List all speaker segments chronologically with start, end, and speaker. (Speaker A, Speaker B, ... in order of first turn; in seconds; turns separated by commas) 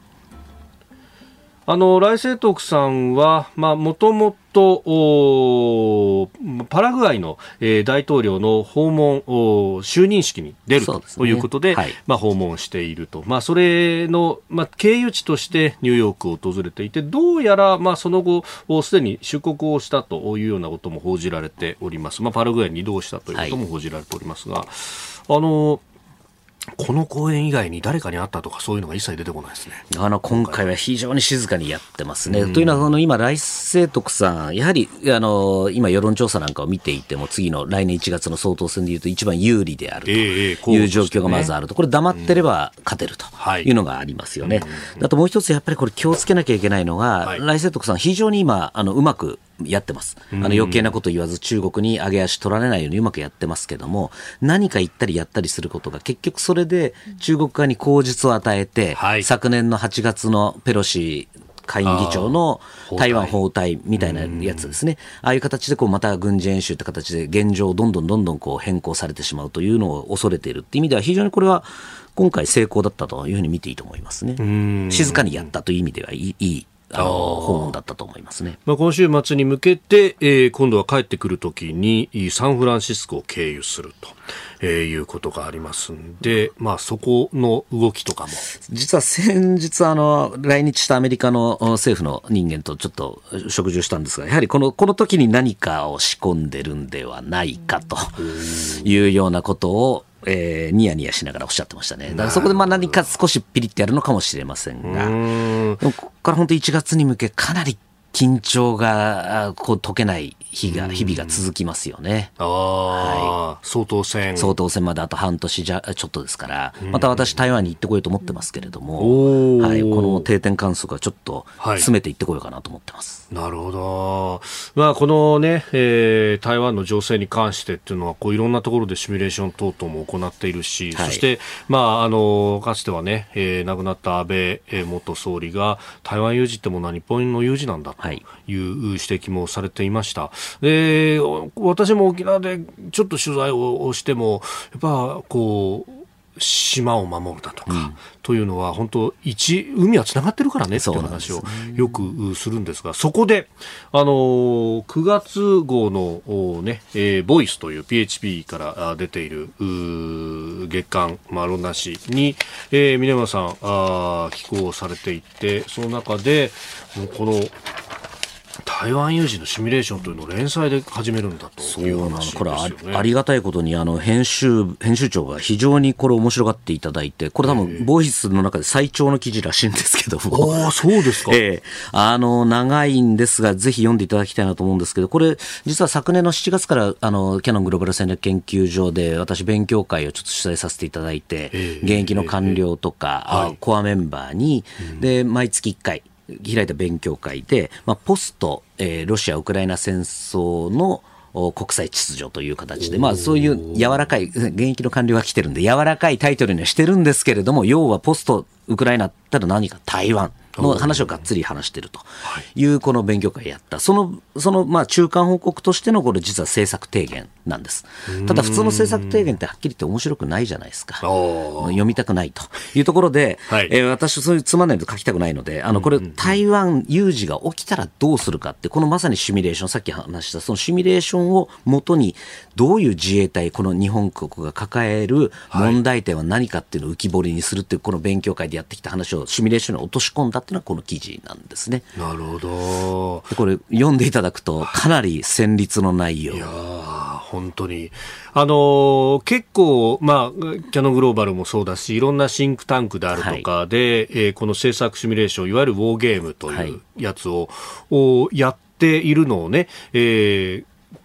Speaker A: 1.7-25.8, Speaker B: 10.8-12.0, Speaker B: 23.3-23.6, Speaker A: 26.8-30.7, Speaker B: 29.9-78.6, Speaker A: 32.3-32.9, Speaker A: 40.1-41.5, Speaker A: 43.4-43.7, Speaker A: 44.4-45.0, Speaker A: 50.3-51.0, Speaker A: 59.0-59.3, Speaker A: 61.8-63.4, Speaker A: 64.0-64.7, Speaker A: 74.4-75.5, Speaker A: 77.0-77.8, Speaker A: 78.7-88.5, Speaker B: 88.6-105.2, Speaker A: 98.2-98.9, Speaker A: 102.1-103.0, Speaker A: 104.8-105.8, Speaker B: 105.8-112.3, Speaker A: 110.7-111.4, Speaker A: 112.4-114.6, Speaker B: 112.9-113.4, Speaker B: 114.4-123.2, Speaker A: 116.8-117.4, Speaker A: 119.0-120.3, Speaker A: 121.6-121.9, Speaker A: 123.3-167.5, Speaker B: 130.9-131.2, Speaker B: 147.7-148.0, Speaker B: 150.7-152.1, Speaker A: 168.6-173.1, Speaker B: 171.6-180.7, Speaker A: 177.4-177.9, Speaker A: 180.3-181.4, Speaker B: 181.2-241.9, Speaker A: 191.5-192.6, Speaker A: 193.3-193.6, Speaker A: 202.9-203.9, Speaker A: 210.5-211.2, Speaker A: 218.1-219.3, Speaker A: 221.0-221.8, Speaker A: 223.5-223.7, Speaker A: 225.8-226.3, Speaker A: 235.5-235.8, Speaker A: 242.0-243.3, Speaker B: 243.3-246.5, Speaker A: 246.3-260.7, Speaker B: 253.1-253.5, Speaker B: 256.5-256.8